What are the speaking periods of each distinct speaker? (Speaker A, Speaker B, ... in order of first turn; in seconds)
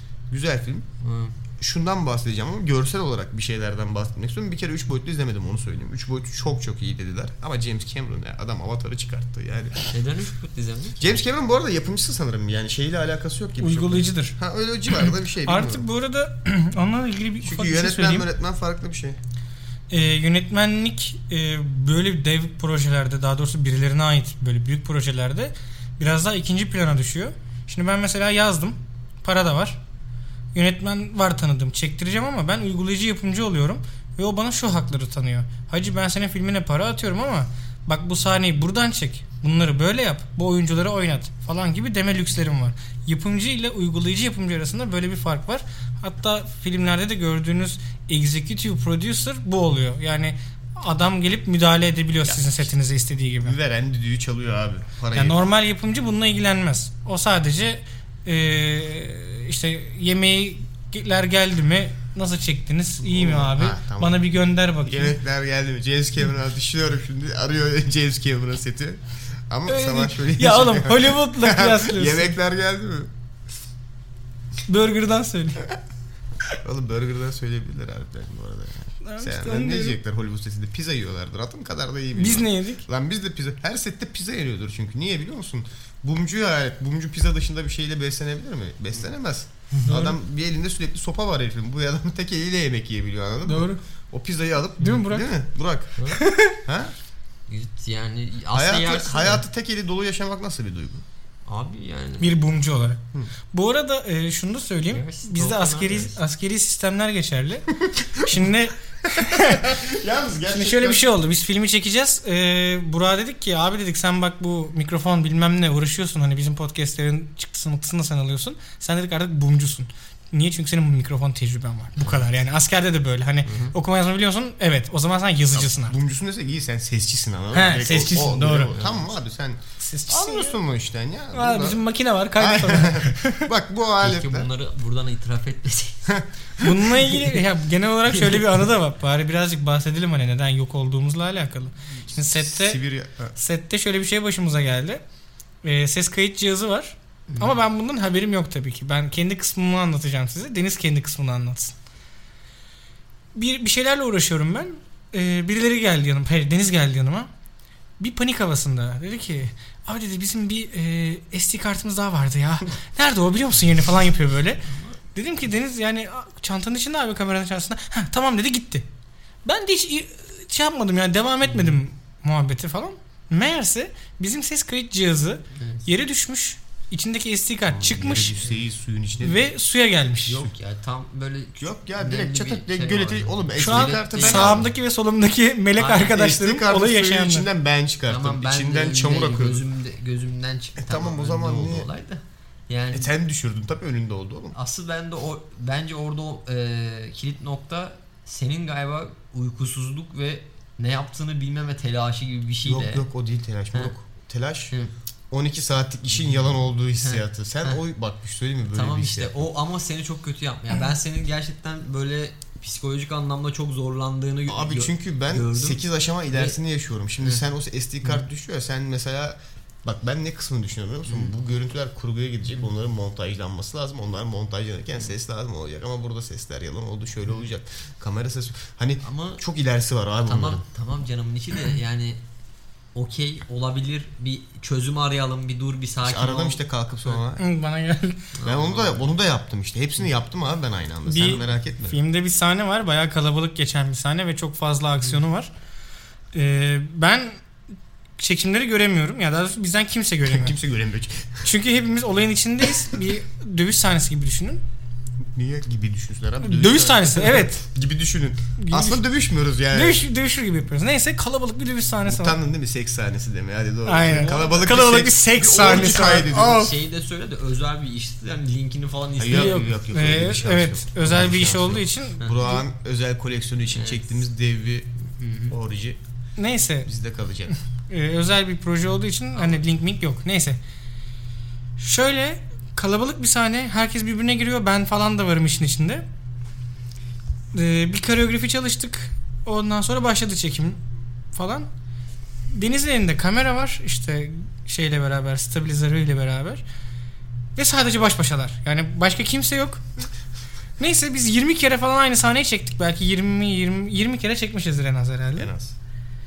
Speaker A: 0.3-0.9, 1.6-9.9, 11.0-15.9, 17.4-19.2, 52.2-52.7, 53.4-55.4, 63.0-64.2, 64.8-73.1, 76.6-95.9, 96.7-96.9, 98.5-101.0, 107.8-108.5, 109.1-111.1, 125.5-131.8, 132.4-134.5, 136.1-136.9, 142.3-143.3, 177.7-179.5, 181.6-184.7, 186.0-189.6, 190.8-191.9, 192.9-194.6, 202.7-204.7, 205.3-209.5, 214.5-230.6, 236.0-237.4, 238.4-242.0, 250.2-251.5, 255.3-260.0, 262.1-266.7, 269.2-274.9, 275.5-276.0, 276.9-277.5, 305.4-305.7
Speaker B: 1.0-1.4, 9.9-11.2, 97.5-99.4, 101.5-102.4, 104.9-106.2, 128.7-129.1, 134.0-136.1, 138.2-138.4, 147.3-147.6, 164.7-165.0, 171.4-171.8, 175.6-175.9, 180.3-184.7, 185.8-186.2, 188.1-193.1, 194.5-203.1, 206.2-207.8, 208.7-216.6, 221.1-221.3, 229.0-229.4, 230.2-232.2, 232.9-237.2, 238.3-239.1, 264.0-264.8, 265.9-269.7, 272.2-272.5, 273.7-274.0, 275.2-275.6, 279.4-279.6
Speaker C: 13.6-14.4, 14.9-18.3, 19.9-29.8, 30.5-53.6, 55.1-65.2, 69.7-72.3, 74.7-75.7, 79.0-80.0, 82.1-82.9, 89.9-90.2, 93.5-93.8, 94.8-95.3, 96.1-96.6, 102.2-103.0, 103.5-109.8, 110.5-126.0, 127.5-128.8, 129.8-130.6, 131.3-133.5, 136.6-142.8, 143.3-145.0, 145.6-151.8, 153.3-157.3, 158.0-164.6, 165.1-168.9, 169.4-178.4, 179.2-180.5, 183.6-187.5, 237.4-238.3, 241.1-245.5, 246.3-247.4, 248.2-250.6, 251.4-254.6, 256.4-257.6, 258.6-259.0, 259.7-262.4, 263.9-266.7, 269.3-272.6, 276.4-276.9, 277.9-280.6, 281.8-286.0, 287.5-290.8, 291.3-291.7, 292.5-296.6, 297.6-299.8, 300.8-305.5